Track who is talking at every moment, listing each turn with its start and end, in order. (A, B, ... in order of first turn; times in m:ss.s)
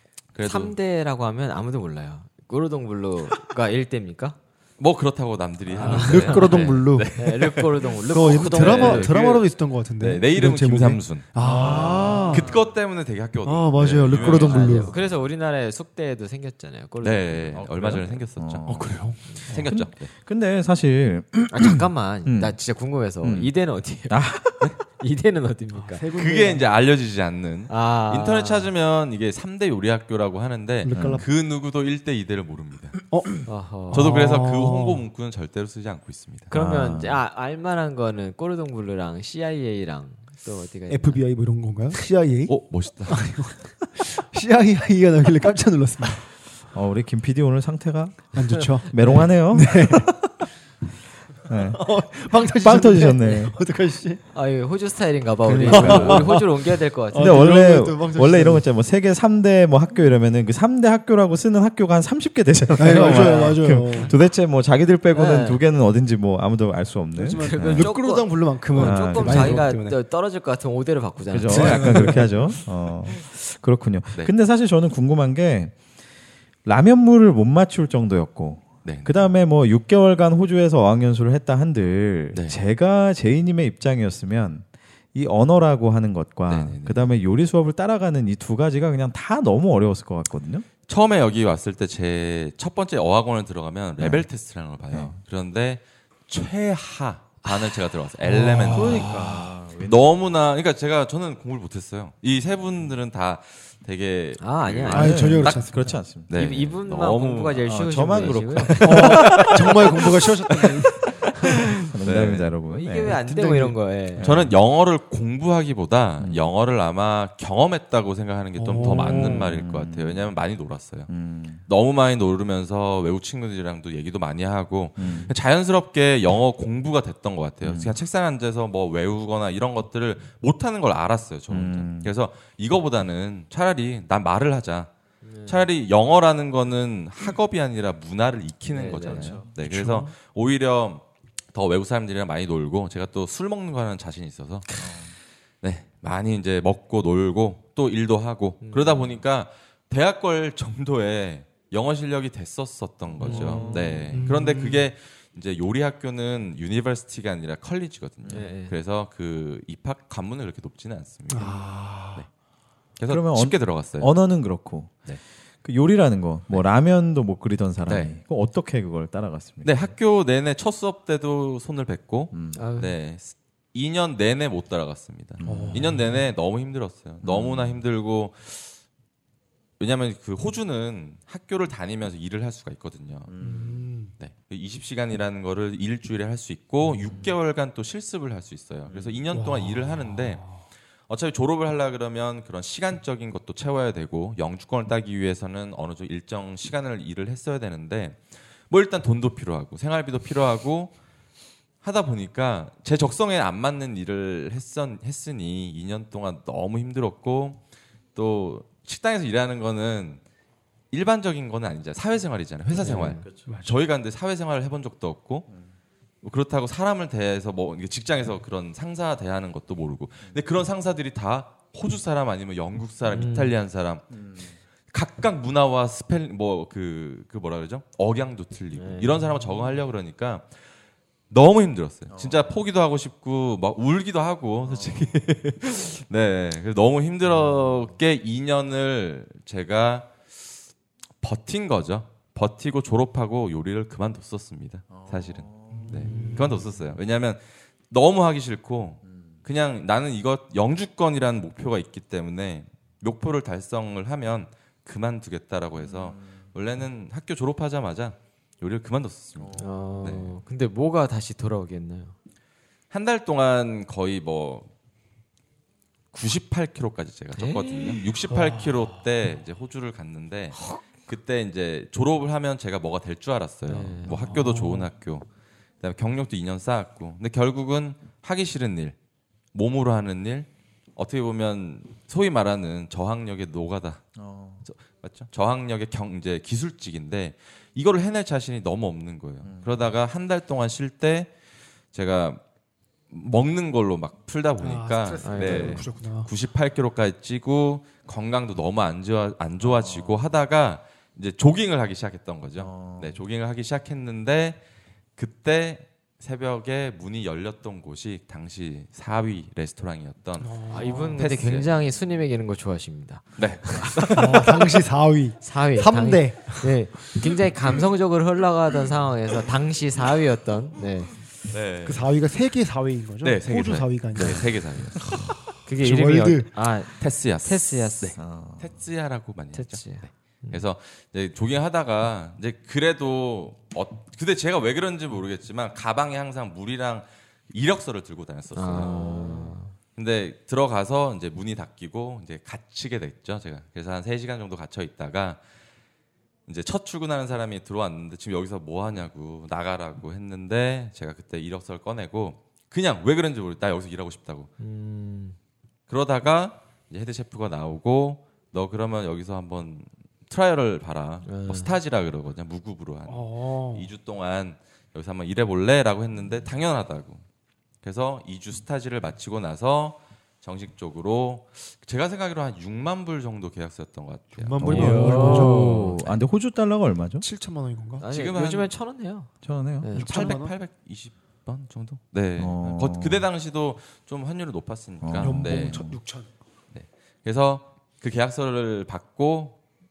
0:00.3-0:00.7 A
0:00.4-0:04.4 B
0:04.8-0:15.0 A
0:05.7-0:09.1 B
0:05.7-0:07.1 C
0:08.0-0:12.5 C
0:11.4-0:12.4 B
0:11.6-0:12.5 D
0:13.4-0:14.9 C
0:14.2-0:17.6 B
0:17.0-0:20.1 A
0:17.5-0:19.0 D
0:18.7-0:19.7 C
0:19.6-0:22.6 D
0:21.5-0:24.2 B
0:23.2-0:23.5 D
0:24.1-0:24.8 D
0:24.8-0:26.0 B
0:25.8-0:26.7 C
0:26.1-0:33.0 A
0:27.7-0:28.7 B
0:30.8-0:31.3 C
0:30.9-0:31.2 D
0:33.1-0:35.0 C
0:33.4-0:34.2 B
0:33.9-0:36.5 A
0:36.5-0:41.2 B
0:36.5-0:37.2 D
0:40.9-0:42.6 C
0:42.5-0:43.3 A
0:43.1-0:46.2 C
0:46.7-0:50.2 D
0:48.3-0:50.3 C
0:51.4-0:53.5 D
0:51.7-0:54.2 C
0:54.3-0:57.5 B
0:55.5-0:56.5 C
0:55.6-0:56.4 D
0:57.1-0:58.6 C
0:57.1-1:07.9 D
1:02.8-1:04.1 C
1:02.8-1:04.1 B
1:05.1-1:05.6 B
1:07.2-1:10.0 C
1:07.2-1:12.2 B
1:08.7-1:09.7 D
1:11.3-1:15.7 D
1:11.5-1:12.6 C
1:16.6-1:30.6 D
1:18.8-1:19.1 A
1:22.3-1:22.6 A
1:26.5-1:27.1 A
1:30.9-1:39.2 A
1:34.0-1:34.3 D
1:34.9-1:35.2 D
1:37.4-1:37.8 B
1:38.2-1:39.2 C
1:38.7-1:40.1 D
1:39.8-1:45.6 A
1:44.4-1:45.3 B
1:44.9-1:46.0 C
1:44.9-1:46.3 D
1:46.3-1:47.6 A
1:46.3-1:49.5 B
1:47.6-1:49.4 D
1:48.6-1:52.5 A
1:48.8-1:51.0 C
1:51.9-1:53.2 D
1:52.7-1:54.3 B
1:53.1-1:53.8 C
1:54.2-1:54.6 D
1:54.2-2:01.1 A
1:56.2-1:56.5 D
1:58.6-1:59.5 C
1:59.0-2:00.3 D
2:01.1-2:01.6 D
2:01.7-2:14.9 A
2:05.0-2:05.3 D
2:07.6-2:07.9 D
2:11.5-2:12.1 D
2:15.2-2:15.7 B
2:15.5-2:24.7 A
2:18.7-2:19.4 B
2:18.9-2:19.5 D
2:19.6-2:20.1 C
2:24.8-2:25.1 D
2:25.6-2:42.3 A
2:28.6-2:29.2 B
2:33.2-2:34.0 B
2:33.2-2:34.2 D
2:33.4-2:34.9 C
2:38.3-2:38.7 B
2:41.3-2:42.2 C
2:43.0-2:44.1 A
2:43.1-2:44.9 D
2:45.6-2:49.8 D
2:47.9-2:48.1 A
2:49.6-2:58.7 A
2:52.3-2:52.6 D
2:52.5-2:52.9 B
2:55.4-2:55.9 D
2:55.4-2:56.2 C
2:57.2-2:57.8 D
2:59.8-3:03.3 A
3:03.3-3:03.8 D
3:03.4-3:04.1 C
3:04.2-3:20.9 A
3:09.3-3:10.6 C
3:21.8-3:27.6 A
3:28.1-3:30.2 A
3:30.9-3:35.5 A
3:32.8-3:33.2 B
3:33.1-3:33.4 D
3:33.5-3:33.8 C
3:36.2-3:44.2 A
3:43.1-3:43.5 B
3:44.1-3:44.5 D
3:44.9-3:50.5 A
3:48.7-3:49.3 B
3:51.3-4:00.1 A
3:52.1-3:52.5 D
3:54.7-3:55.1 D
4:01.2-4:20.4 A
4:04.9-4:06.1 D
4:05.7-4:06.7 C
4:06.0-4:06.5 B
4:15.8-4:16.3 D
4:19.4-4:19.7 D
4:19.6-4:22.1 B
4:22.9-4:24.7 A
4:26.1-4:35.2 A
4:27.4-4:28.0 B
4:28.3-4:28.8 C
4:30.5-4:30.8 B
4:33.7-4:34.5 B
4:34.1-4:34.8 C
4:35.8-4:39.0 A
4:39.5-4:44.0 A
4:44.2-4:44.6 D
4:44.6-4:51.3 A
4:49.4-4:49.8 D
4:51.9-4:52.4 A
4:53.1-5:04.6 A
4:54.6-4:56.3 C
4:55.2-4:55.8 B
4:59.6-5:00.2 D
5:02.6-5:03.2 D
5:05.2-5:11.7 A
5:10.4-5:11.2 C
5:10.7-5:14.4 B
5:13.4-5:14.7 A
5:14.1-5:16.8 C
5:15.4-5:21.1 B
5:21.5-5:22.1 A
5:21.8-5:26.5 C
5:23.2-5:25.1 A
5:24.2-5:24.4 B
5:25.6-5:28.1 B
5:27.0-5:39.2 A
5:28.2-5:28.7 D
5:29.5-5:30.6 B
5:38.5-5:39.7 B
5:38.7-5:39.5 D
5:40.0-5:45.4 A
5:46.5-5:54.5 A
5:54.6-5:55.4 B
5:55.9-6:07.2 A
6:01.2-6:01.7 B
6:03.1-6:03.9 C
6:07.8-6:15.1 A
6:14.3-6:16.0 C
6:14.6-6:17.2 D
6:14.6-6:16.0 B
6:17.2-6:18.0 C
6:18.0-6:19.3 B
6:18.0-6:18.7 A
6:19.4-6:19.9 D
6:19.8-6:20.1 B
6:19.9-6:20.5 C
6:20.0-6:25.8 A
6:22.4-6:23.2 D
6:25.0-6:26.0 D
6:25.2-6:26.3 C
6:26.7-6:29.6 A